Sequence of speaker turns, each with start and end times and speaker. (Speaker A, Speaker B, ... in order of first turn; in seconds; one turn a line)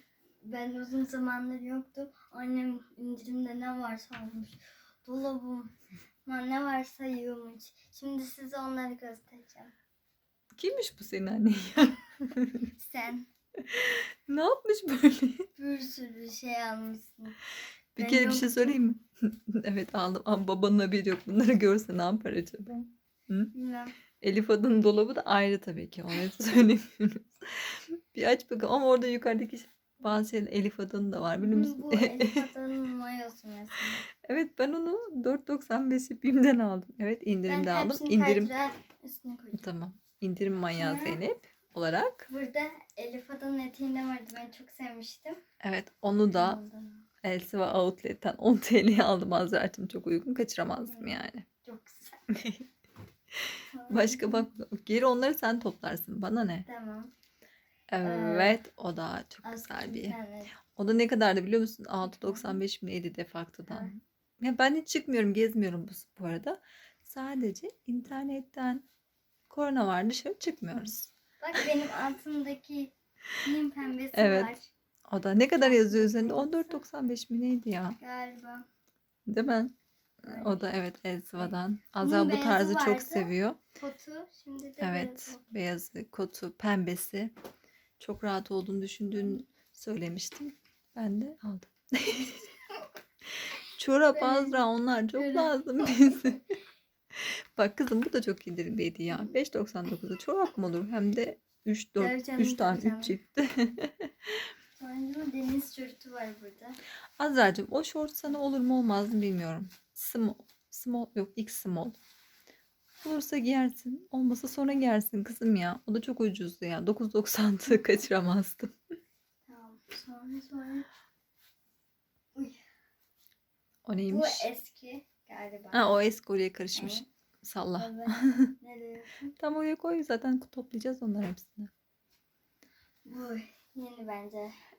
Speaker A: 0.4-5.7
Speaker A: 6.2-9.7
Speaker B: 10.6-12.7
Speaker A: 12.7-13.3
Speaker B: 13.6-15.5
Speaker A: 15.6-17.4
Speaker B: 17.9-23.5
Speaker A: 18.0-18.8
Speaker A: 23.5-23.9
Speaker B: 24.2-32.5
Speaker A: 31.4-34.0
Speaker B: 34.1-38.5
Speaker A: 37.5-39.6
Speaker B: 39.5-42.3
Speaker A: 40.8-41.2
Speaker A: 42.3-45.4
Speaker B: 45.6-46.6
Speaker A: 46.3-47.0
Speaker B: 47.2-51.5
Speaker A: 50.9-52.2
Speaker B: 52.3-52.6
Speaker A: 53.7-54.5
Speaker B: 53.9-56.6
Speaker A: 56.6-57.1
Speaker B: 57.9-60.1
Speaker A: 58.0-58.6
Speaker A: 59.4-60.5
Speaker B: 60.7-68.8
Speaker A: 62.0-62.6
Speaker B: 69.5-71.1
Speaker A: 71.4-74.7
Speaker B: 74.1-74.5
Speaker B: 75.1-78.0
Speaker A: 75.5-76.8
Speaker A: 78.0-78.6
Speaker B: 79.3-83.6
Speaker A: 80.2-80.7
Speaker A: 81.4-85.4
Speaker B: 84.8-87.3
Speaker B: 88.0-92.4
Speaker A: 92.2-92.8
Speaker B: 93.7-96.4
Speaker A: 94.1-94.6
Speaker A: 95.1-96.4
Speaker B: 97.1-104.4
Speaker A: 102.0-103.1
Speaker A: 104.8-106.8
Speaker B: 107.2-111.9
Speaker B: 113.0-118.7
Speaker A: 119.5-120.9
Speaker A: 122.3-122.6
Speaker B: 123.8-124.5
Speaker A: 124.1-125.9
Speaker B: 125.7-128.5
Speaker A: 126.7-127.0
Speaker A: 127.8-129.3
Speaker B: 129.3-131.7
Speaker A: 133.1-134.5